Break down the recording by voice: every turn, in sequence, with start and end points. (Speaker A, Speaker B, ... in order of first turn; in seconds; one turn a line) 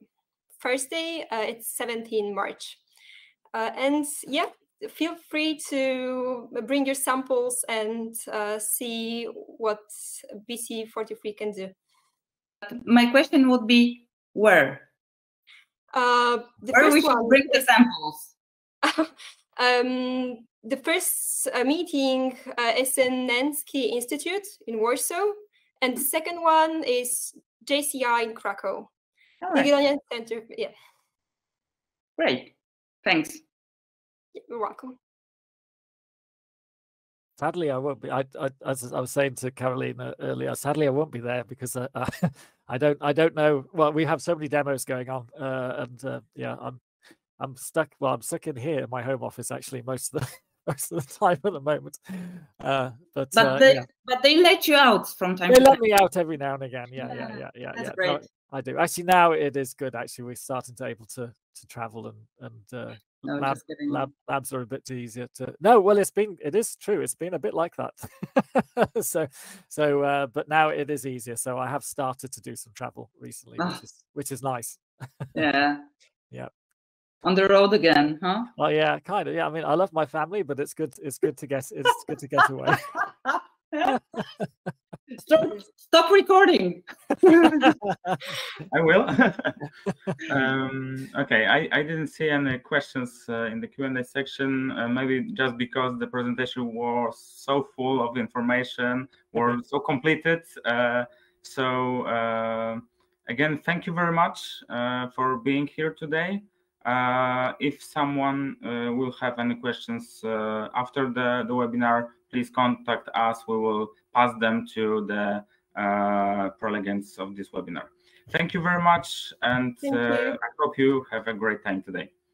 Speaker A: 0.6-2.8
Speaker A: 3.5-11.7
Speaker B: 12.6-14.8
Speaker A: 15.9-17.6
Speaker B: 16.7-18.3
Speaker A: 18.8-28.9
Speaker B: 29.4-29.7
Speaker A: 29.5-30.7
Speaker B: 32.2-32.5
Speaker B: 33.0-33.4
Speaker A: 34.4-35.0
Speaker C: 37.4-46.8
Speaker C: 47.4-53.8
Speaker B: 53.3-55.8
Speaker C: 55.5-75.4
Speaker B: 57.0-58.2
Speaker B: 63.2-64.0
Speaker B: 75.3-75.8
Speaker B: 77.2-78.5
Speaker C: 78.6-83.0
Speaker B: 83.3-84.0
Speaker C: 83.8-84.4
Speaker B: 85.2-87.7
Speaker C: 87.6-88.2
Speaker D: 88.7-89.6
Speaker D: 90.2-122.1
Speaker A: 119.8-120.4